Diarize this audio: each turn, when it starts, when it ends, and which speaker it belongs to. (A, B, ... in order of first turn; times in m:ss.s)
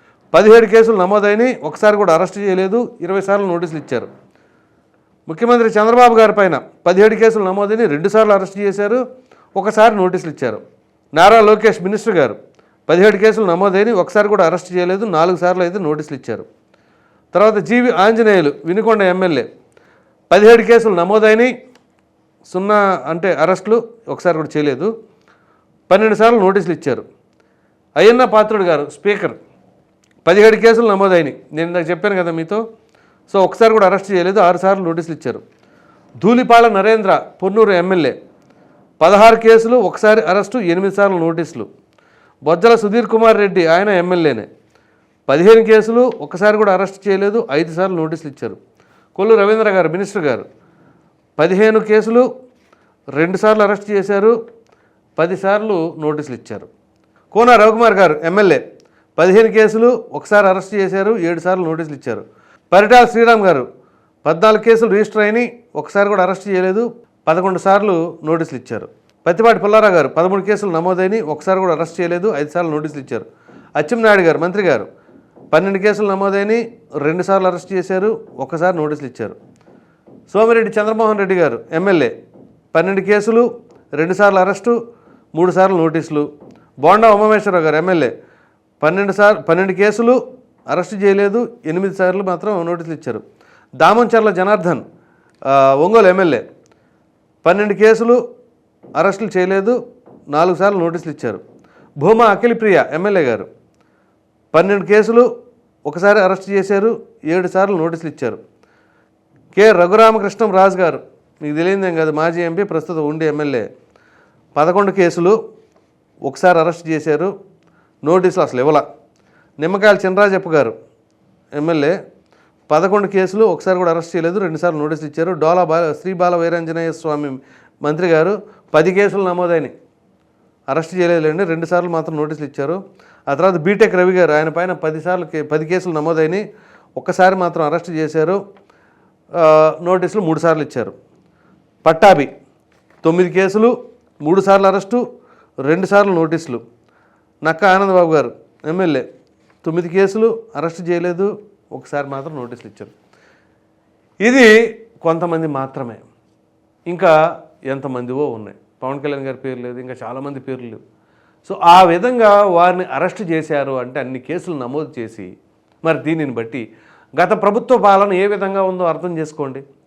0:00.3-0:04.1 A
0:05.3-0:09.0 A
0:09.6-0:10.6 A
0:11.1-0:16.4 A
0:17.3-0:19.5 A
0:20.3-0:21.5 A
0:22.5-0:24.9 A
0:25.9-0:27.0 A
0:28.0-0:29.4 A
0:30.2-0:32.6 A
0:33.3-0:35.4 A
0:36.2-0:38.2 A
0:39.0-0:41.7 A
0:42.4-0:44.5 A
0:45.3-0:48.6 A
0:49.2-0:50.4 A
0:51.4-0:52.3 A
0:53.1-0:54.4 A
0:55.2-0:56.7 A
0:57.3-0:58.6 A
0:59.2-1:03.7 A
1:04.2-1:13.2 A
1:13.8-1:14.9 A
1:15.5-1:19.4 A
1:20.3-1:22.1 A
1:22.7-1:24.8 A
1:25.3-1:26.3 A
1:26.8-1:28.1 A
1:28.8-1:30.2 A
1:30.7-1:33.2 A
1:33.8-1:34.8 A
1:35.5-1:36.4 A
1:37.4-1:38.2 A
1:39.0-1:39.8 A
1:40.3-1:41.4 A
1:42.0-1:43.5 A
1:44.5-1:45.3 A
1:45.8-1:48.4 A
1:49.5-1:53.7 A
1:54.5-1:55.4 A
1:56.2-1:57.3 A
1:58.0-1:58.8 A
1:59.6-2:00.7 A
2:01.6-2:02.0 A
2:02.7-2:09.7 A
2:10.7-2:16.4 A
2:17.0-2:18.4 A
2:19.4-2:20.9 A
2:21.8-2:22.3 A
2:23.0-2:25.0 A
2:25.6-2:26.6 A
2:27.4-2:29.0 A
2:29.6-2:32.9 A
2:34.2-2:34.5 A
2:35.0-2:36.0 A
2:37.7-2:40.8 A
2:41.4-2:45.3 A
2:45.8-2:46.6 A
2:47.2-2:49.6 A